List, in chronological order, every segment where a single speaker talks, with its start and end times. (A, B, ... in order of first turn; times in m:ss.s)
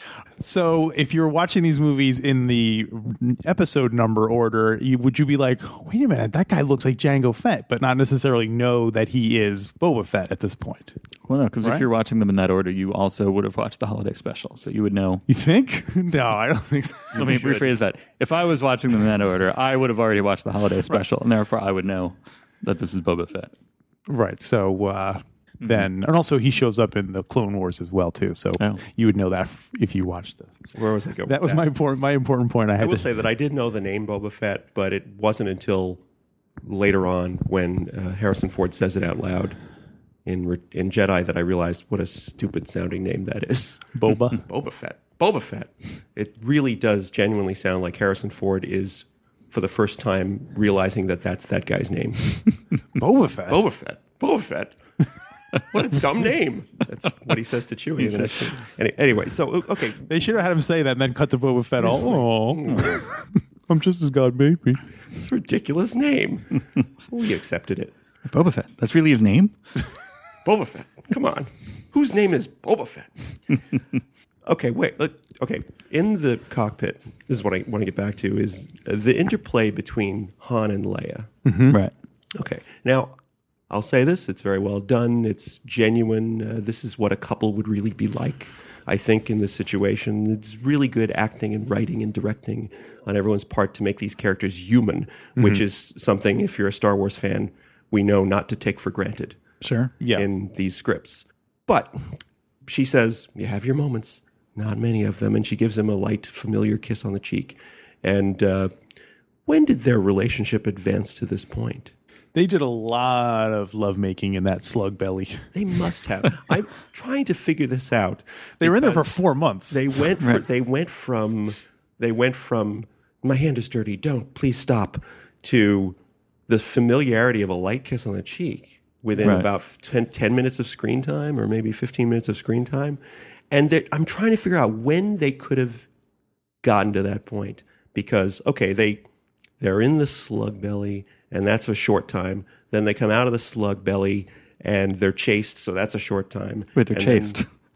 0:00.4-0:11.0 A
0:11.2-0:15.2 B
0:15.3-0:17.4 A
0:17.1-0:23.5 B
0:17.2-0:17.6 C
0:24.1-0:33.1 A
0:30.7-0:31.7 C
0:32.8-0:36.0 C
0:36.6-0:39.6 C
0:40.2-0:52.4 C
0:43.9-0:44.4 A
0:53.0-0:53.6 A
0:53.5-0:54.8 C
0:55.7-1:00.1 C
0:58.0-0:58.4 B
1:00.1-1:04.8 A
1:01.8-1:03.0 C
1:02.7-1:03.0 B
1:05.1-1:07.9 C
1:08.3-1:09.5 B
1:10.4-1:13.5 C
1:14.4-1:21.3 C
1:21.4-1:21.8 A
1:22.4-1:23.1 C
1:23.7-1:39.4 C
1:35.4-1:35.6 A
1:39.7-1:40.3 A
1:40.1-1:42.0 C
1:42.7-1:48.7 C
1:49.5-1:51.9 C
1:52.3-1:55.5 A
1:55.5-2:06.0 C
1:58.6-2:00.1 A
2:06.5-2:13.0 C
2:13.5-2:15.9 C
2:16.6-2:19.0 C
2:19.6-2:27.4 C
2:26.7-2:27.5 B